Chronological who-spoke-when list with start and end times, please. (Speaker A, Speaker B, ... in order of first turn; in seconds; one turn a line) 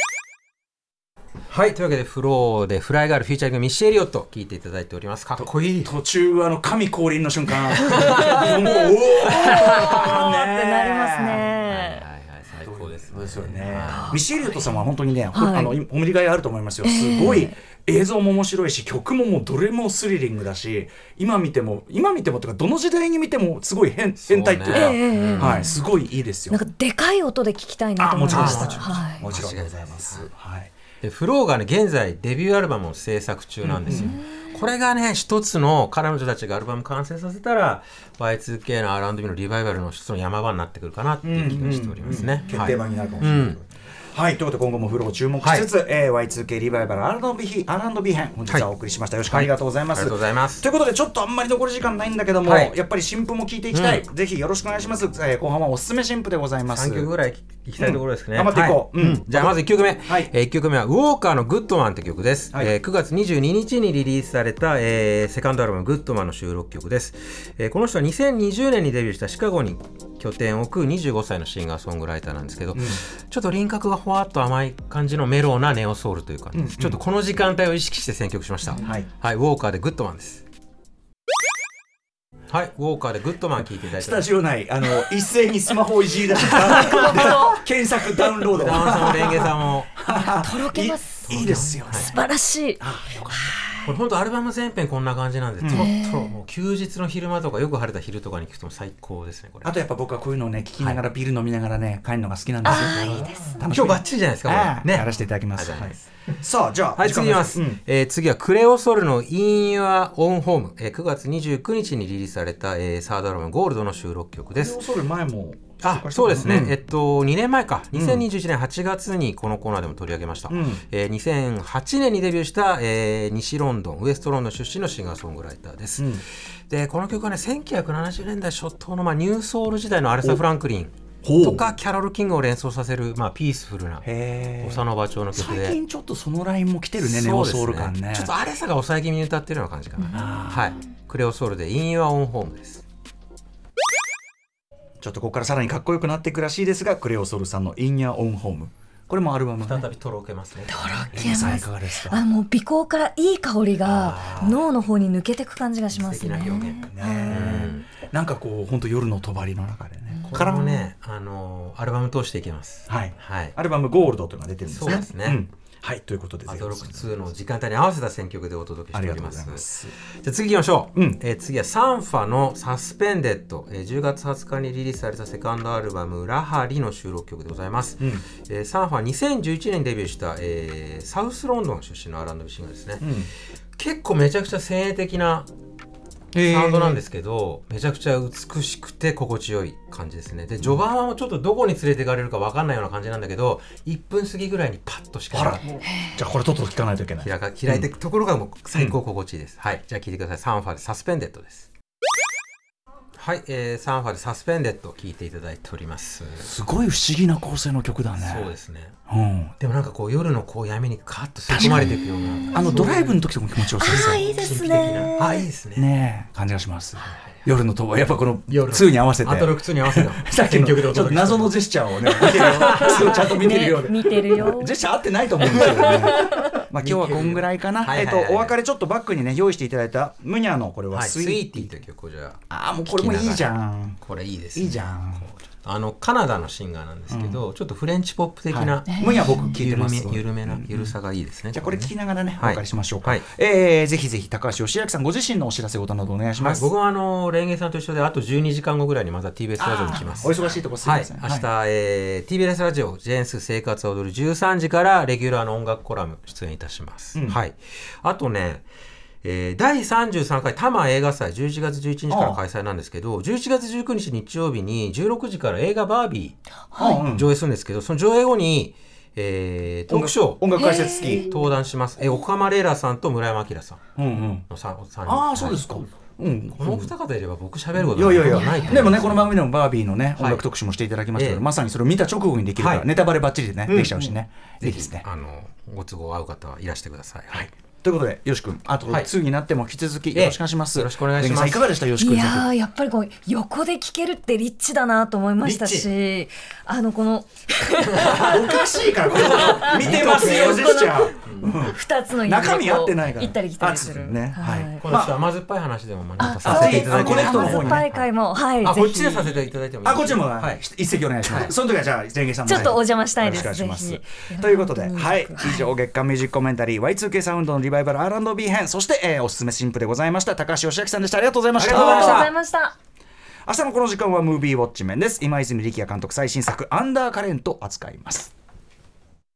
Speaker A: 1.5-5.9
Speaker B: 5.4-11.4
Speaker A: 7.8-8.5
Speaker C: 8.0-12.0
Speaker A: 9.4-9.9
Speaker A: 11.6-14.2
Speaker B: 12.6-26.6
Speaker C: 13.8-14.8
Speaker C: 15.3-15.8
Speaker C: 16.8-17.5
Speaker A: 24.2-25.7
Speaker C: 24.7-25.8
Speaker C: 26.5-29.2
Speaker B: 28.0-30.7
Speaker A: 28.3-30.3
Speaker A: 31.0-43.6
Speaker B: 33.6-34.1
Speaker C: 33.9-34.2
Speaker B: 41.2-57.1
Speaker A: 45.4-45.7
Speaker A: 49.3-50.7
Speaker A: 52.4-52.8
Speaker A: 53.7-54.0
Speaker A: 56.7-80.4
Speaker B: 57.8-60.3
Speaker B: 72.7-73.0
Speaker B: 76.5-77.0
Speaker B: 78.8-79.1
Speaker A: 82.5-84.3
Speaker B: 83.9-92.2
Speaker A: 86.6-87.4
Speaker C: 86.9-87.6
Speaker A: 88.3-89.9
Speaker C: 90.1-93.8
Speaker A: 90.8-92.1
Speaker B: 92.8-93.6
Speaker A: 93.8-99.7
Speaker B: 95.6-95.8
Speaker C: 95.7-96.4
Speaker B: 99.6-107.8
Speaker C: 102.6-103.7
Speaker A: 102.6-106.4
Speaker A: 107.0-114.8
Speaker B: 114.5-116.8
Speaker A: 115.8-135.8
Speaker B: 117.9-118.2
Speaker B: 120.5-120.8
Speaker B: 126.0-126.2
Speaker B: 131.2-131.7
Speaker B: 134.0-138.3
Speaker A: 137.0-142.8
Speaker B: 140.1-140.7
Speaker B: 145.0-149.8
Speaker A: 149.6-151.6
Speaker C: 150.7-157.7
Speaker B: 151.1-152.2
Speaker A: 153.8-154.6
Speaker A: 155.9-157.9
Speaker B: 156.8-160.8
Speaker A: 160.2-163.5
Speaker B: 162.9-167.1
Speaker A: 164.7-165.4
Speaker A: 166.5-169.6
Speaker B: 168.9-169.9
Speaker A: 170.2-183.1
Speaker B: 170.9-171.2
Speaker B: 183.0-183.3
Speaker A: 183.8-185.5
Speaker B: 186.3-187.0
Speaker A: 186.4-195.7
Speaker B: 195.3-197.9
Speaker A: 197.2-201.7
Speaker A: 203.2-206.5
Speaker B: 206.4-208.5
Speaker A: 208.2-208.9
Speaker B: 209.1-209.5
Speaker A: 209.6-213.2
Speaker B: 211.5-212.0
Speaker C: 211.7-212.9
Speaker B: 212.5-214.3
Speaker C: 213.8-215.5
Speaker A: 213.8-215.9
Speaker B: 215.8-231.7
Speaker A: 217.0-217.4
Speaker A: 218.5-223.3
Speaker C: 222.6-224.8
Speaker A: 225.5-228.6
Speaker A: 230.9-233.5
Speaker B: 232.5-234.0
Speaker A: 234.0-243.2
Speaker B: 234.5-235.2
Speaker B: 237.1-237.4
Speaker B: 238.5-240.9
Speaker C: 238.9-239.6
Speaker B: 241.5-246.7
Speaker A: 246.4-258.6
Speaker B: 249.9-251.5
Speaker B: 257.1-257.4
Speaker A: 259.2-266.4
Speaker B: 262.1-262.4
Speaker C: 266.7-267.0
Speaker B: 266.8-267.3
Speaker A: 267.0-273.8
Speaker B: 269.9-271.3
Speaker C: 270.6-271.3
Speaker B: 274.0-274.4
Speaker A: 274.5-275.6
Speaker B: 275.0-276.9
Speaker A: 276.6-279.4
Speaker B: 277.7-285.0
Speaker C: 278.3-278.8
Speaker A: 280.2-280.4
Speaker A: 281.1-281.4
Speaker A: 282.6-282.9
Speaker A: 283.7-287.4
Speaker B: 287.3-292.5
Speaker A: 290.1-291.7
Speaker C: 292.0-304.8
Speaker A: 295.4-295.9
Speaker B: 298.0-305.2
Speaker A: 299.2-301.5
Speaker A: 304.8-308.1
Speaker C: 306.2-309.4
Speaker B: 306.4-307.8
Speaker A: 308.6-310.6
Speaker B: 309.8-322.3
Speaker A: 311.2-311.5
Speaker C: 312.4-315.7
Speaker C: 321.6-322.7
Speaker A: 321.6-322.3
Speaker B: 323.4-328.3